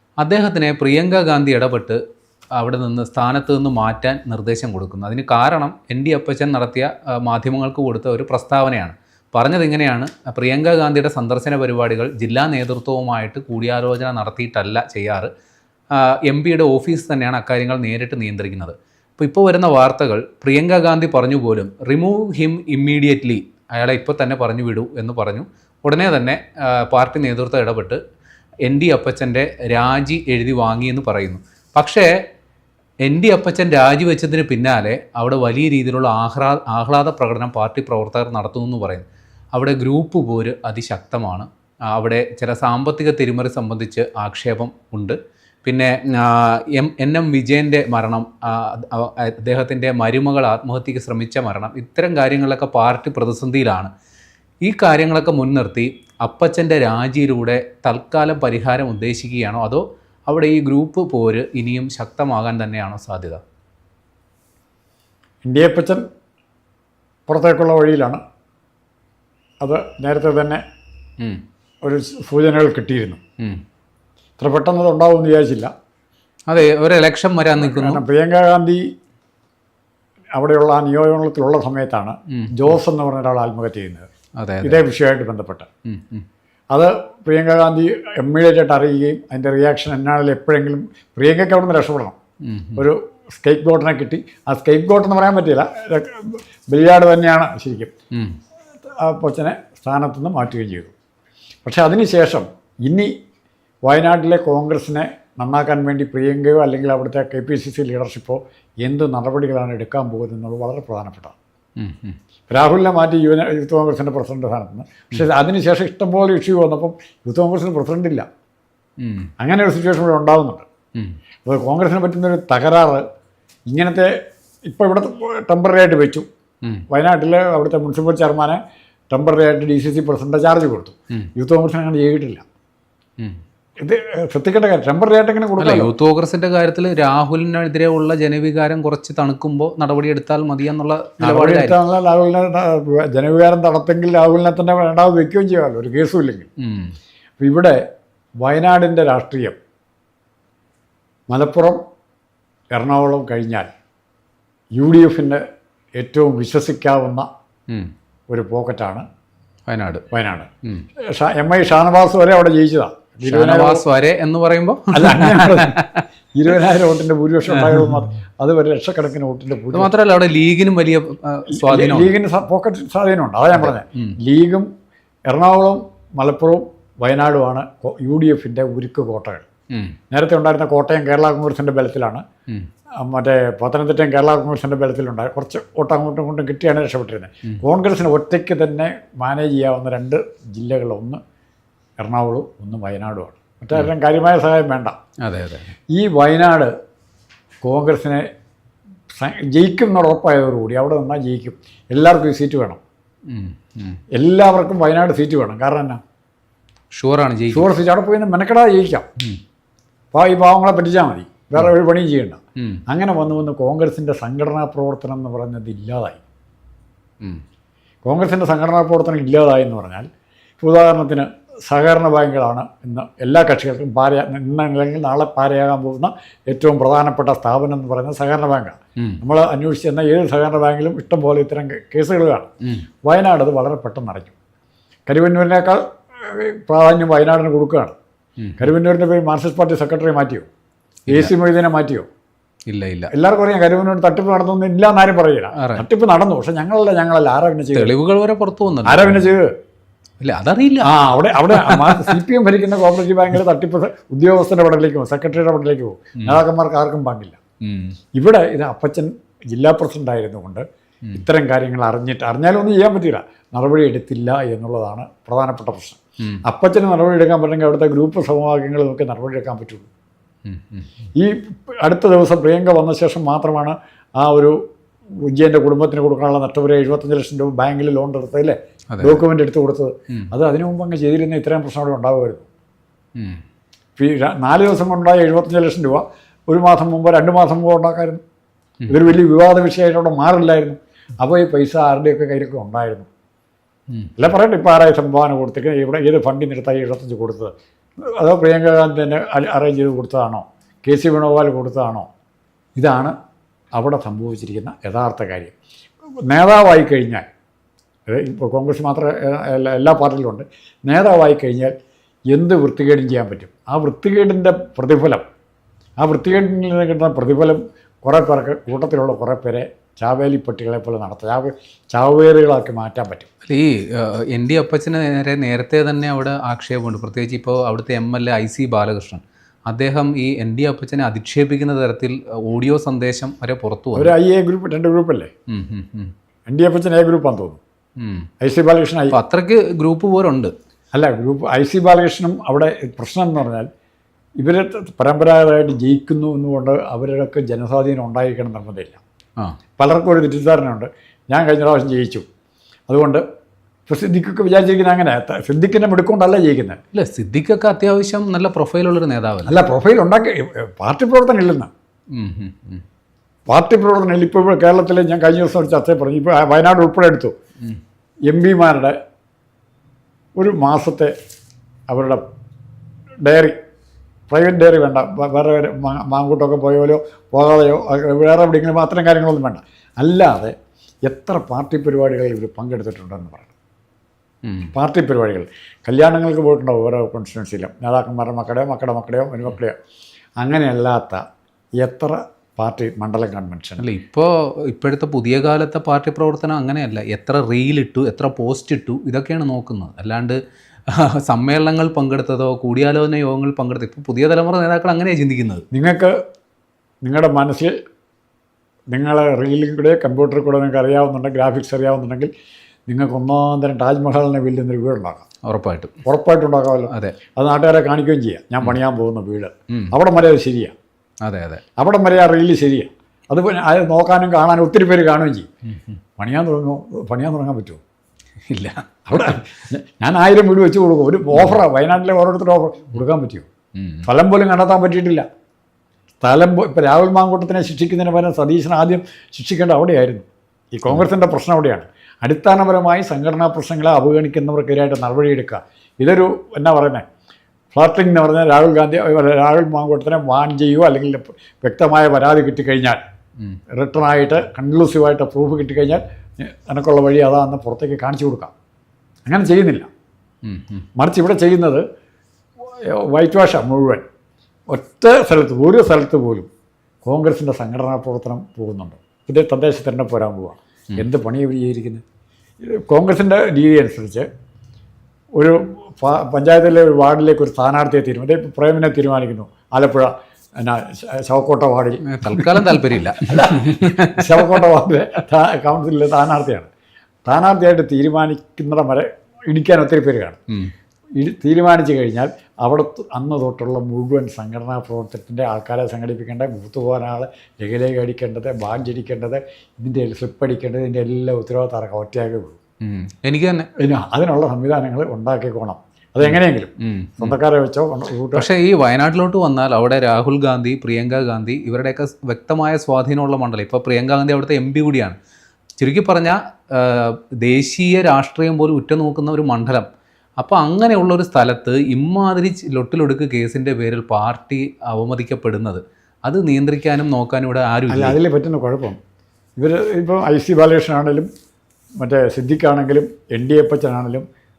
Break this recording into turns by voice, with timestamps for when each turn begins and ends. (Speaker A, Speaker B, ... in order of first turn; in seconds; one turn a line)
Speaker A: 0.2-2.0
Speaker A: 2.5-15.3
Speaker A: 15.9-28.0
Speaker A: 28.6-32.1
Speaker A: 33.0-53.9
Speaker A: 54.6-63.4
Speaker B: 65.4-66.0
Speaker B: 67.3-68.2
Speaker B: 69.6-70.6
Speaker B: 71.8-73.2
Speaker B: 74.4-75.7
Speaker A: 76.5-78.0
Speaker B: 77.6-78.9
Speaker B: 80.3-84.1
Speaker A: 82.3-82.8
Speaker A: 84.4-84.8
Speaker B: 84.6-85.7
Speaker A: 85.9-86.2
Speaker B: 86.7-92.2
Speaker A: 92.4-92.9
Speaker B: 92.8-97.9
Speaker B: 99.0-100.9
Speaker B: 101.6-103.1
Speaker B: 103.9-111.4
Speaker A: 111.8-112.2
Speaker B: 112.5-118.2
Speaker A: 119.0-119.3
Speaker B: 119.4-120.7
Speaker B: 121.4-123.0
Speaker B: 123.7-124.1
Speaker B: 124.7-126.2
Speaker B: 126.9-128.6
Speaker B: 129.1-132.4
Speaker B: 133.8-135.9
Speaker A: 135.6-141.8
Speaker B: 141.2-146.5
Speaker A: 146.6-146.9
Speaker B: 147.4-147.8
Speaker B: 148.4-149.6
Speaker B: 151.3-151.8
Speaker B: 152.7-153.7
Speaker B: 154.8-155.4
Speaker B: 156.0-157.2
Speaker B: 158.3-159.0
Speaker A: 159.7-160.0
Speaker B: 160.1-160.5
Speaker B: 161.1-163.8
Speaker A: 163.2-166.0
Speaker B: 164.9-165.8
Speaker B: 166.3-169.9
Speaker A: 167.5-168.0
Speaker A: 169.7-172.1
Speaker B: 171.5-174.7
Speaker A: 173.6-174.2
Speaker B: 175.3-179.5
Speaker B: 180.1-182.2
Speaker B: 183.0-191.2
Speaker B: 192.0-195.0
Speaker A: 195.2-195.7
Speaker B: 195.9-196.7
Speaker B: 197.6-198.2
Speaker B: 199.1-202.8
Speaker A: 203.3-204.0
Speaker B: 204.1-206.0
Speaker A: 206.9-207.7
Speaker B: 207.5-209.1
Speaker B: 210.1-216.2
Speaker B: 218.0-220.1
Speaker B: 220.6-232.5
Speaker A: 229.0-229.2
Speaker B: 233.0-234.3
Speaker B: 235.1-237.9
Speaker A: 238.4-238.7
Speaker B: 238.6-240.5
Speaker B: 241.1-242.1
Speaker A: 242.7-243.1
Speaker B: 243.1-247.9
Speaker A: 245.5-245.8
Speaker A: 247.7-249.3
Speaker B: 248.8-249.5
Speaker A: 250.2-250.9
Speaker B: 250.9-257.4
Speaker A: 251.5-252.2
Speaker A: 257.6-258.0
Speaker B: 258.1-269.9
Speaker A: 270.4-270.9
Speaker B: 271.1-274.6
Speaker B: 275.2-282.5
Speaker A: 278.9-279.2
Speaker A: 283.2-283.4
Speaker B: 284.0-288.2
Speaker B: 288.9-293.1
Speaker B: 294.2-297.5
Speaker B: 298.1-302.1
Speaker B: 302.8-303.1
Speaker B: 303.8-305.5
Speaker B: 306.3-307.2
Speaker B: 308.1-311.7
Speaker B: 312.3-315.2
Speaker B: 316.0-323.3
Speaker A: 323.4-334.1
Speaker B: 333.9-335.3
Speaker A: 335.5-336.1
Speaker B: 336.5-337.6
Speaker A: 338.0-338.3
Speaker B: 338.4-339.1
Speaker A: 339.1-340.5
Speaker B: 340.9-343.7
Speaker B: 344.4-349.0
Speaker B: 349.8-352.2
Speaker B: 352.9-353.2
Speaker B: 353.9-356.8
Speaker A: 356.9-359.6
Speaker B: 359.4-361.7
Speaker A: 362.1-362.8
Speaker B: 363.5-367.3
Speaker B: 368.3-368.9
Speaker B: 370.4-371.1
Speaker B: 371.9-372.2
Speaker B: 373.2-373.6
Speaker B: 374.3-380.5
Speaker B: 381.1-383.5
Speaker A: 384.4-384.7
Speaker B: 384.7-389.8
Speaker B: 390.4-391.2
Speaker B: 391.8-393.8
Speaker A: 393.8-405.6
Speaker B: 405.7-406.1
Speaker B: 407.0-407.7
Speaker B: 408.9-412.3
Speaker B: 412.9-415.2
Speaker A: 415.4-415.9
Speaker B: 416.1-420.7
Speaker A: 416.9-417.1
Speaker A: 421.2-421.6
Speaker B: 421.8-425.5
Speaker A: 425.7-426.0
Speaker B: 426.2-427.8
Speaker A: 428.5-429.4
Speaker B: 429.1-433.5
Speaker A: 431.3-431.6
Speaker A: 433.8-434.1
Speaker B: 434.1-435.2
Speaker B: 436.2-447.0
Speaker B: 447.7-453.0
Speaker B: 453.8-458.5
Speaker B: 459.3-459.9
Speaker A: 460.4-460.9
Speaker B: 461.0-461.8
Speaker B: 462.8-464.1
Speaker B: 464.7-466.5
Speaker B: 467.0-472.0
Speaker B: 472.6-474.3
Speaker B: 475.4-486.7
Speaker A: 482.1-484.6
Speaker B: 487.2-490.4
Speaker B: 491.2-502.6
Speaker A: 502.8-503.7
Speaker B: 503.8-508.5
Speaker A: 506.2-507.4
Speaker A: 508.3-515.2
Speaker A: 515.8-519.9
Speaker A: 520.4-528.2
Speaker B: 527.9-529.0
Speaker B: 529.6-531.3
Speaker B: 532.0-534.2